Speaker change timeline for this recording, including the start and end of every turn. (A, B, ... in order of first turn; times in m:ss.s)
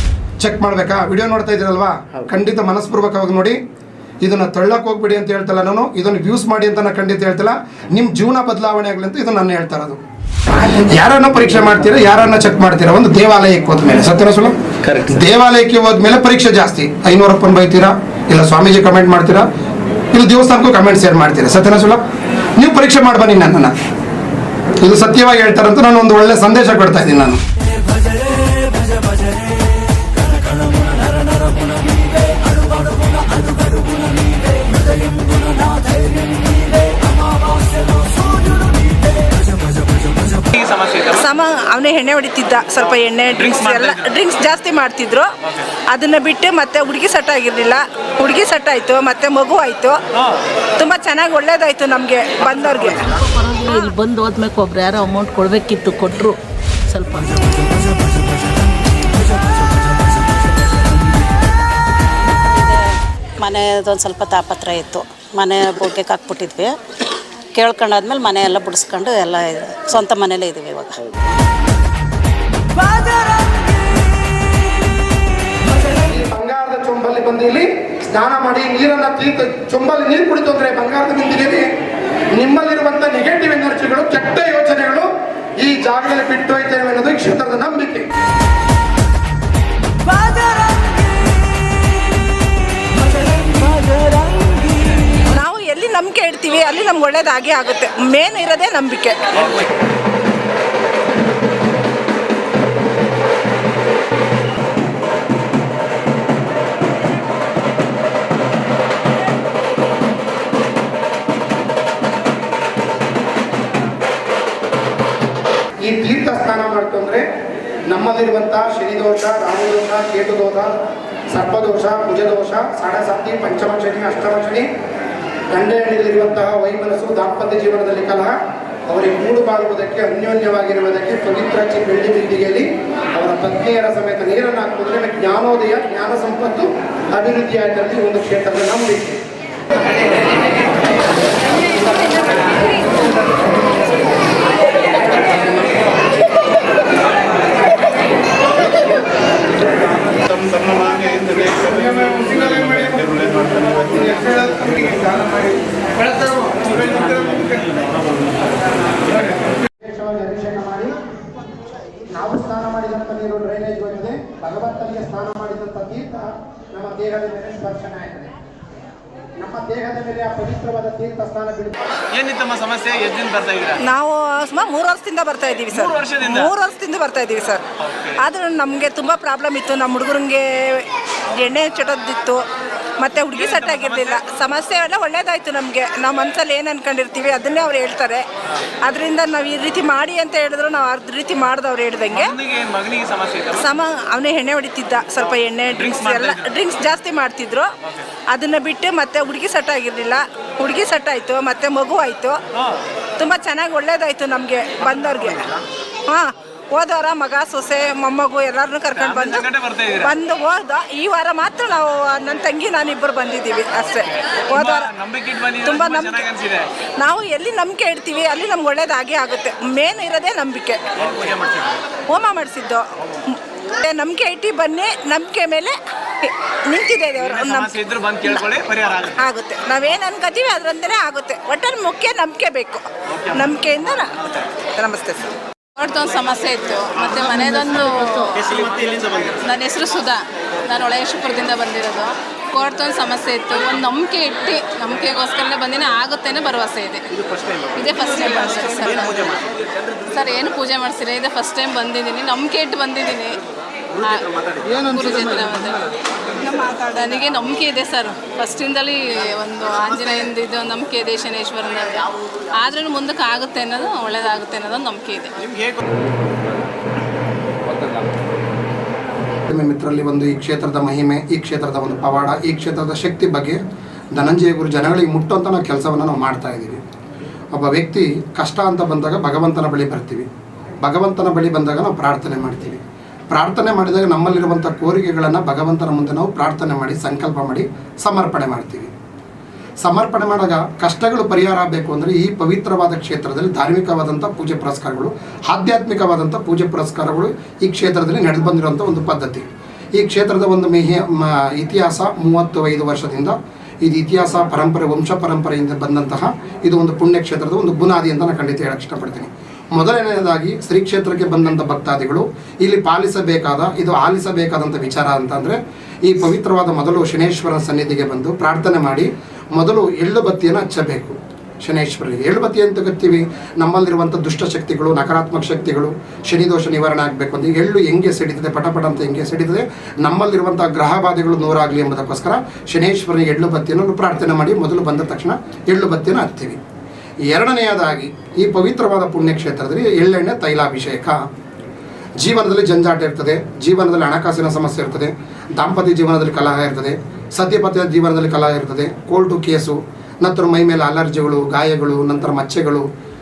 0:00.4-0:03.6 A
0:04.2-0:10.0 A
0:10.6-0:19.5 A
0:20.1-0:22.0 A
0:22.6-0:23.7 A
0:24.8-0:27.4 A
0:30.6-0:31.2 B
0:32.4-0:33.8 B
0:34.7-0:35.8 B
0:36.9-0:37.3 B
0:40.4-0:41.2 C
0:41.0-0:45.3 D
0:43.6-0:43.9 C
0:45.9-0:50.0 D
0:50.8-0:53.2 D
0:53.3-0:57.8 B
1:02.5-1:06.8 E
1:07.5-1:11.0 E
1:15.9-1:21.7 A
1:22.3-1:28.1 A
1:30.1-1:31.0 D
1:33.4-1:34.5 D
1:35.2-1:39.4 D
1:55.8-1:57.3 A
1:57.8-2:00.8 A
2:01.3-2:04.7 A
2:05.5-2:19.2 A
2:30.4-2:35.5 C
2:33.8-2:35.2 A
2:36.7-2:37.5 A
2:36.9-2:37.8 C
2:39.6-2:40.9 A
2:42.1-2:48.3 A
2:49.4-2:51.8 A
2:52.1-2:53.8 C
2:53.8-2:57.6 D
2:55.8-2:56.4 C
2:58.2-3:02.4 D
3:03.0-3:08.2 D
3:03.5-3:04.0 C
3:08.8-3:12.3 D
3:12.2-3:13.6 C
3:13.5-3:17.7 D
3:15.9-3:16.4 C
3:18.3-3:22.4 D
3:23.2-3:25.6 D
3:26.1-3:34.9 D
3:29.1-3:30.1 C
3:34.6-3:36.6 C
3:35.5-3:41.2 D
3:41.2-3:41.6 C
3:42.1-3:55.3 D
3:47.4-3:49.2 C
3:55.8-3:58.5 F
3:58.5-3:59.4 C
3:59.4-4:07.1 F
4:07.7-4:09.2 F
4:10.0-4:13.4 F
4:14.8-4:25.4 F
4:29.5-4:33.6 A
4:34.1-4:36.8 A
4:37.5-4:40.3 A
4:40.8-4:48.9 A
4:49.8-4:59.4 A
5:00.0-5:36.6 A
5:37.3-5:41.2 A
5:42.2-5:52.9 A